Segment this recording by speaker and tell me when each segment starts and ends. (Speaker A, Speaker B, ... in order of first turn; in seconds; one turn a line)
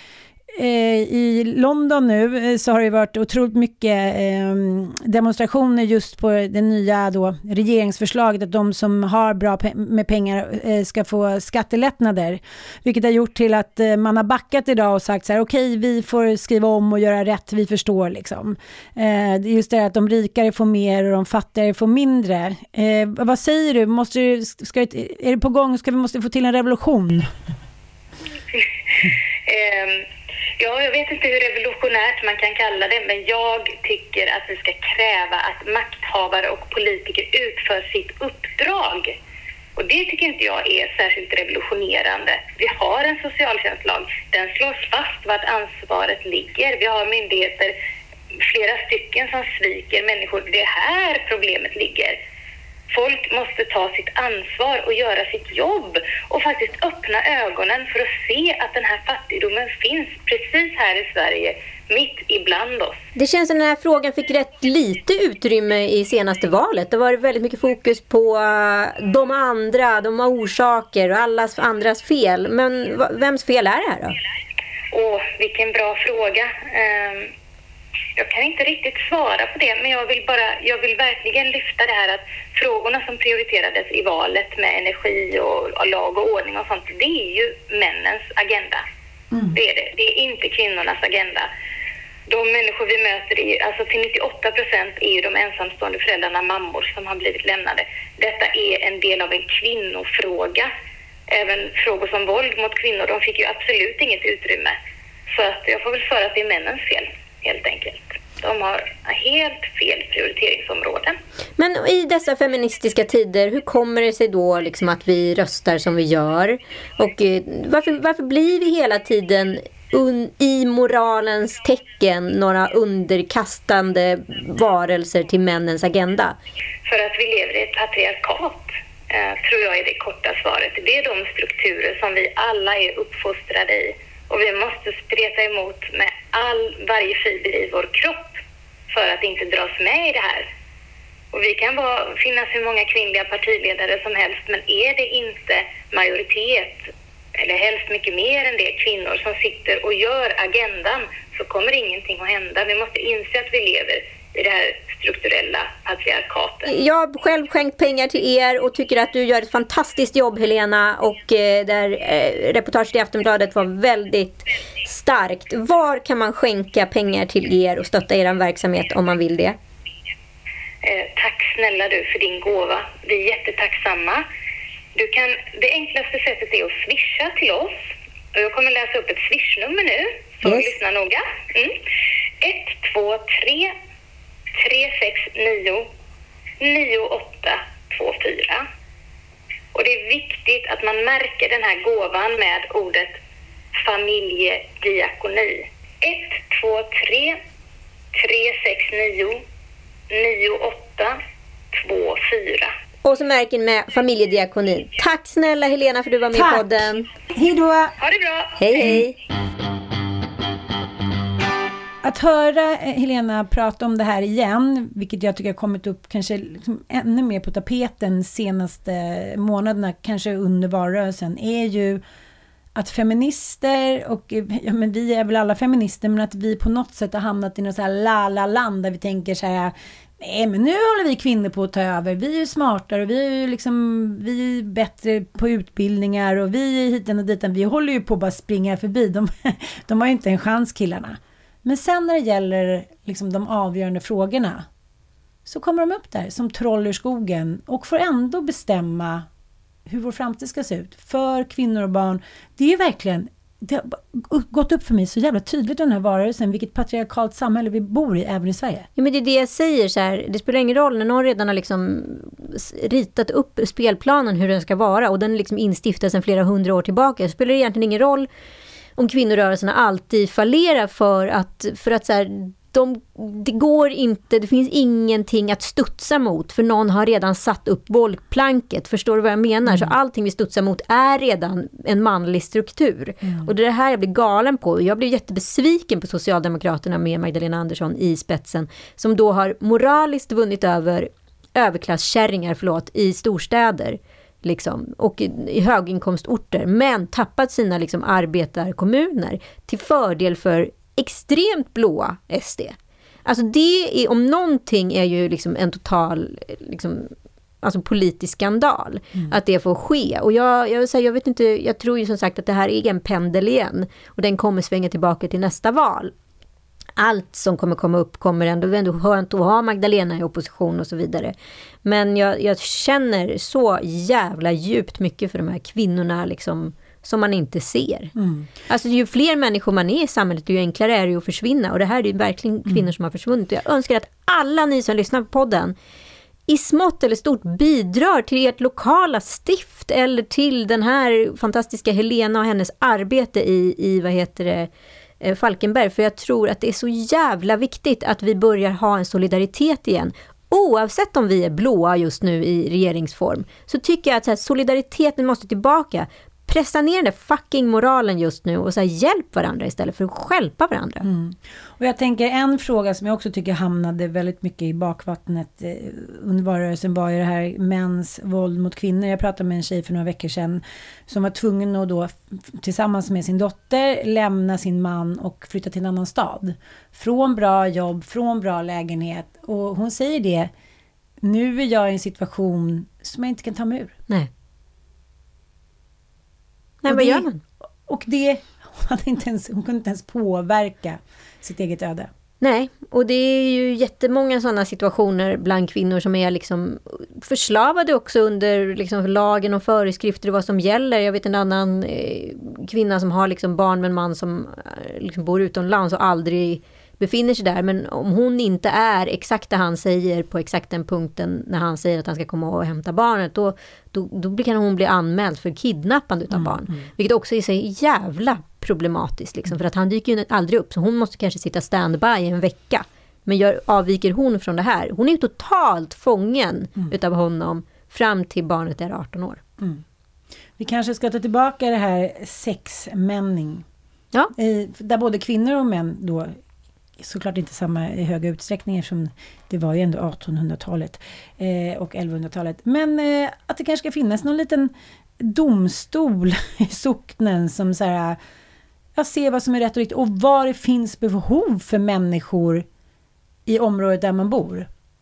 Speaker A: 0.5-27.3
Speaker B: 29.5-30.1
Speaker B: 30.6-39.1
Speaker B: 39.8-47.7
Speaker B: 48.4-52.2
Speaker B: 52.9-63.0
Speaker C: 63.1-74.2
Speaker B: 74.9-77.3
Speaker B: 78.2-88.8
Speaker A: 89.3-89.6
Speaker B: 89.5-91.5
Speaker B: 92.3-100.7
Speaker B: 101.3-104.8
Speaker B: 105.3-111.1
Speaker C: 111.6-126.4
Speaker B: 126.8-138.4
Speaker B: 138.9-140.5
Speaker B: 141.3-156.7
Speaker C: 156.6-169.6
Speaker B: 170.8-174.2
Speaker B: 174.9-181.8
Speaker C: 180.4-180.7
Speaker B: 182.4-183.7
Speaker B: 184.6-185.9
Speaker B: 186.6-188.6
Speaker B: 189.7-193.2
Speaker B: 193.8-197.4
Speaker B: 198.1-199.4
Speaker B: 200.1-201.2
Speaker B: 201.7-202.7
Speaker C: 203.0-207.1
Speaker A: 206.3-206.7
Speaker A: 207.3-207.9
Speaker B: 208.0-208.6
Speaker C: 208.6-209.2
Speaker A: 208.8-209.0
Speaker A: 212.0-222.0
Speaker A: 222.7-244.7
Speaker A: 245.4-249.3
Speaker A: 249.8-258.9
Speaker C: 258.9-268.3
Speaker C: 269.0-316.1
Speaker A: 279.6-279.9
Speaker A: 283.2-283.5
Speaker C: 317.0-328.1
Speaker A: 328.1-328.5
Speaker C: 328.7-335.7
Speaker C: 336.5-344.7
Speaker C: 345.2-361.1
Speaker A: 361.0-380.5
Speaker A: 381.2-383.9
Speaker C: 386.8-387.4
Speaker A: 386.9-387.2
Speaker A: 387.9-392.1
Speaker C: 392.4-429.4
Speaker A: 416.3-416.9
Speaker A: 430.6-433.6
Speaker A: 434.4-436.4
Speaker A: 437.0-448.2
Speaker A: 448.9-452.6
Speaker A: 453.4-454.7